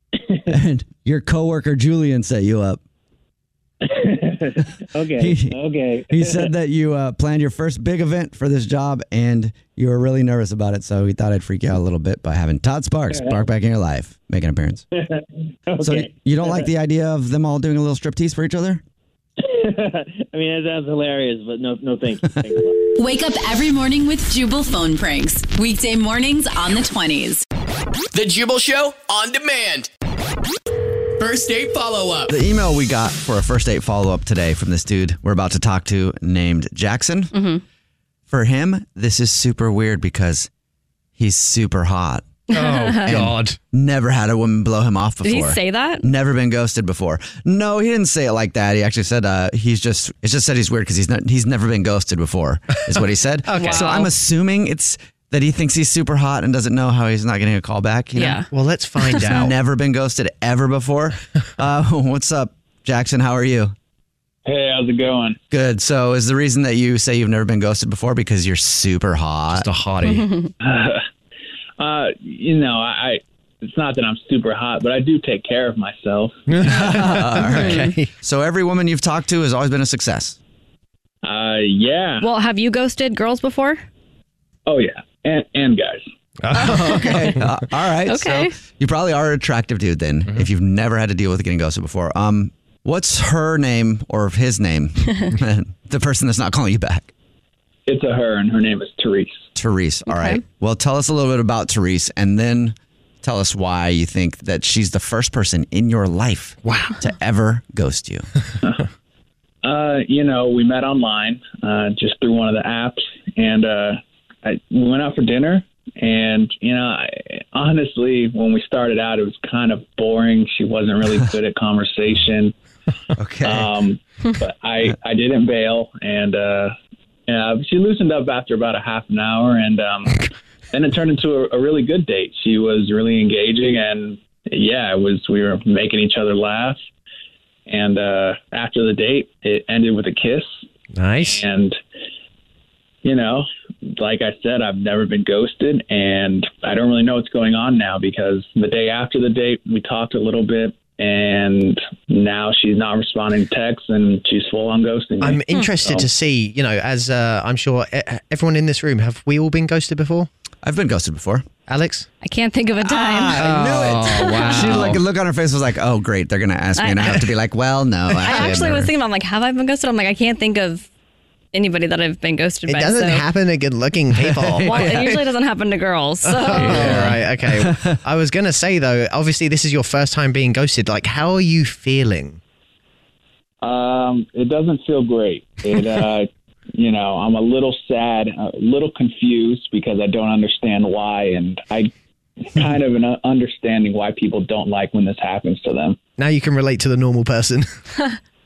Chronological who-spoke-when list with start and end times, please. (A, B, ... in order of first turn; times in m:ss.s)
0:00.5-0:02.8 A
0:03.8-0:06.5 B
0:05.2-0:05.6 A
0:06.1-0:14.9 A
0:14.9-0:16.7 B
0:15.8-0:18.8 A
0:19.4-0:22.8 B
0:23.0-0:27.4 C
0:28.1-0:29.9 D
0:31.2-0:32.3 D
0:32.3-0:37.3 A
0:37.3-0:37.6 E
0:38.3-0:40.5 A
0:41.2-0:42.3 A
0:42.5-0:43.2 E
0:42.5-0:43.6 F
0:43.0-0:58.5 A
0:45.2-0:46.1 E
0:53.4-0:54.1 F
0:53.5-0:54.1 E
0:58.2-0:58.5 E
0:58.5-0:59.6 F
0:59.0-0:59.4 E
0:59.1-1:03.7 A
1:04.5-1:05.4 G
1:05.5-1:09.7 A
1:09.5-1:10.3 F
1:10.0-1:10.5 E
1:10.6-1:11.0 G
1:11.8-1:16.4 G
1:16.5-1:18.1 F
1:16.6-1:20.4 A
1:17.5-1:17.9 E
1:21.2-1:22.3 G
1:22.2-1:23.8 E
1:24.6-1:26.0 G
1:26.4-1:27.6 F
1:26.5-1:27.4 E
1:26.6-1:37.1 A
1:28.0-1:28.5 E
1:37.9-1:39.5 G
1:39.5-1:48.2 A
1:40.1-1:40.4 E
1:46.6-1:47.0 F
1:49.6-2:02.5 G
2:03.2-2:03.7 A
2:03.4-2:06.8 G
2:07.3-2:16.8 G
2:17.7-2:20.5 G
2:20.9-2:21.4 F
2:21.2-2:21.8 G
2:23.0-2:36.1 G
2:35.2-2:40.3 F
2:40.6-2:41.5 A
2:41.6-2:42.1 F
2:42.2-2:44.9 E
2:42.8-2:48.9 A
2:43.3-2:45.0 F
2:46.8-2:47.3 E
2:48.2-2:50.9 E
2:51.5-2:53.2 E
2:52.7-2:55.3 F
2:54.2-2:55.1 A
2:54.6-2:57.1 E
2:56.2-3:02.4 F
2:56.6-2:58.0 A
3:03.6-3:16.0 G
3:16.2-3:17.8 F